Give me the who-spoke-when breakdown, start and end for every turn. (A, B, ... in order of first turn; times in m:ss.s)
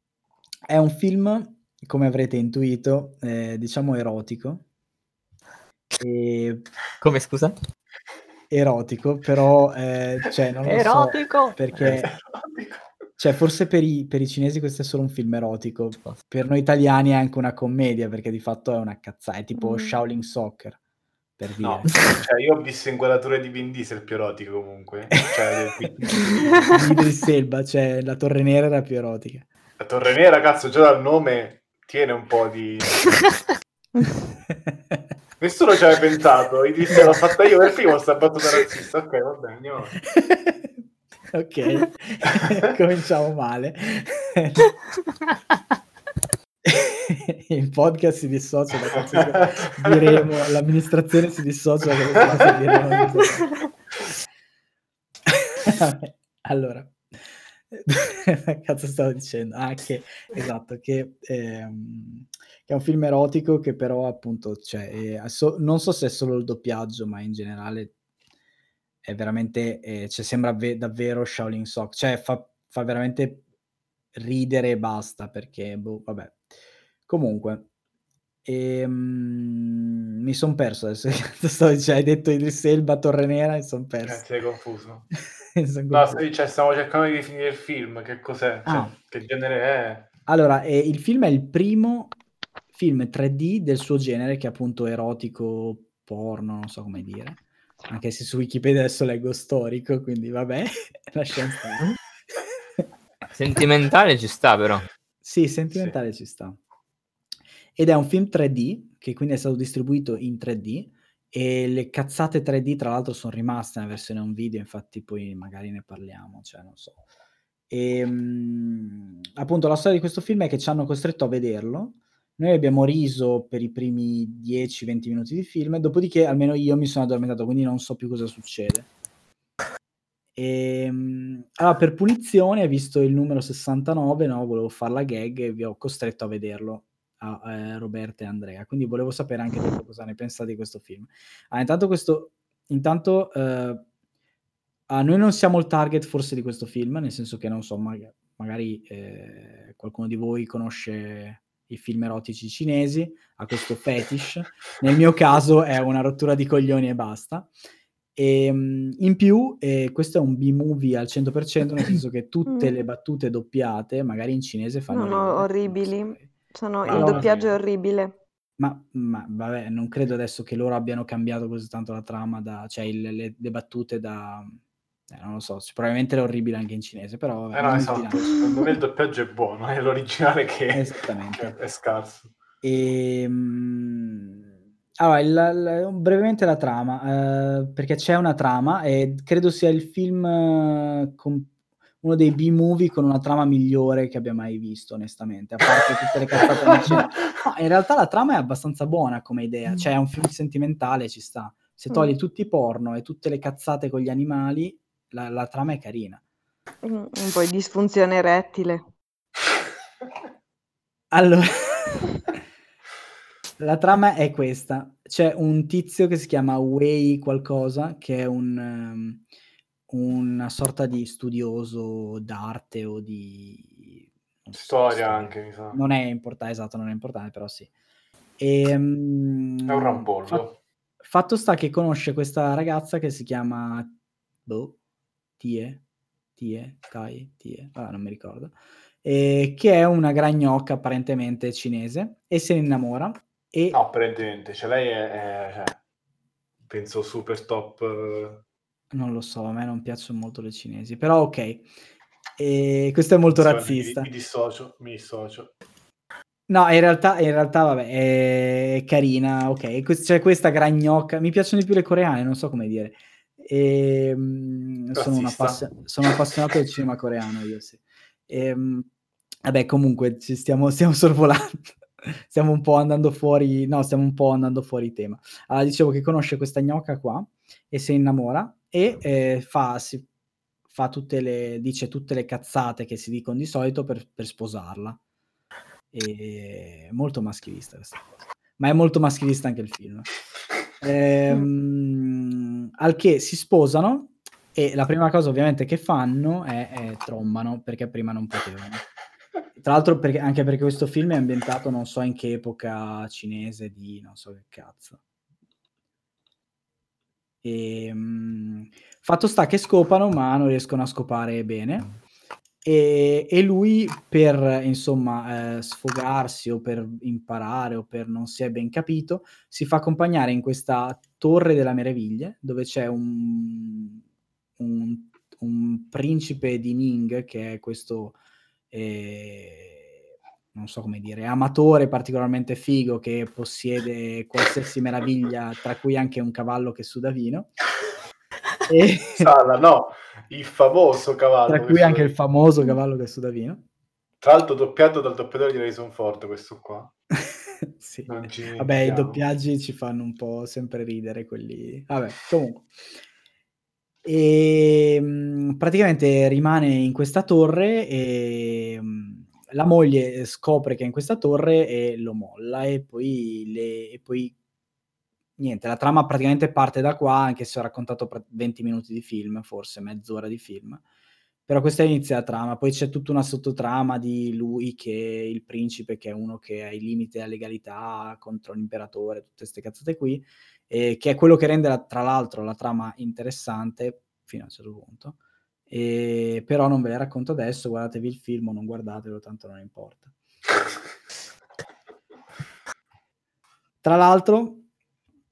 0:00.7-0:04.6 A
0:06.0-0:06.6 A
0:07.0-0:07.5 B
0:08.5-0:12.1 A
0:10.6-0:11.8 B
0:11.8-0:12.9 C
0:13.2-0:20.8 A
0:19.6-0:20.0 D
0:21.4-0:21.9 A
0:21.6-0:26.8 C
0:26.7-0:29.5 A
0:29.8-0:33.3 C
0:34.5-0:35.0 A
0:35.4-0:40.0 C
0:40.1-0:40.7 A
0:41.3-0:44.6 A
0:46.6-0:53.6 A
0:49.0-0:50.2 C
0:52.1-0:52.9 C
0:55.6-0:57.0 A
0:57.7-1:07.9 A
1:09.0-1:13.4 A
1:14.1-1:16.5 A
1:17.1-1:17.7 A
1:18.4-1:24.2 A
1:24.0-1:25.1 C
1:25.6-1:26.2 A
1:25.9-1:30.1 C
1:28.6-1:28.9 A
1:30.2-1:32.1 A
1:32.7-1:41.9 A
1:43.3-1:44.8 B
1:45.2-1:46.6 A
1:45.7-1:46.0 C
1:47.7-1:57.0 A
1:57.7-2:08.9 A
2:10.4-2:23.8 A
2:24.9-2:37.5 A
2:38.2-2:46.3 A
2:42.5-2:42.7 D
2:44.9-2:48.2 D
2:46.8-2:47.6 C
2:46.8-2:47.3 A
2:48.6-2:58.3 A
2:57.5-3:02.3 C
3:00.7-3:01.5 A
3:02.6-3:04.4 A
3:05.0-3:26.2 A
3:16.4-3:17.0 C
3:26.8-3:28.8 D
3:31.1-3:32.1 A
3:33.6-3:39.2 A
3:39.9-3:47.7 A
3:44.5-3:45.8 C
3:48.4-3:50.4 A
3:49.7-3:50.6 C
3:51.0-3:53.9 A
3:54.4-3:54.8 A
3:55.4-3:55.8 A
3:56.4-4:03.8 A
4:03.7-4:05.8 C
4:06.7-4:08.4 C
4:08.9-4:11.7 A
4:12.4-4:14.1 A
4:13.3-4:15.5 C
4:16.5-4:28.9 A
4:24.9-4:25.8 C
4:29.4-4:40.1 A
4:40.7-4:45.0 A
4:45.9-4:50.1 A
4:50.8-4:58.8 A
4:59.6-5:05.0 A
5:07.4-5:11.9 A
5:12.6-5:24.0 A
5:24.6-5:28.2 A
5:28.7-5:30.0 A
5:30.5-5:37.6 A
5:38.7-5:39.3 A
5:39.2-5:42.2 C
5:41.5-5:43.6 A
5:44.2-5:46.9 C
5:47.8-5:52.7 A
5:48.1-5:49.2 C
5:54.0-6:04.3 A
6:05.4-6:10.8 A
6:11.5-6:25.2 A
6:25.7-6:30.1 A
6:33.8-6:34.6 A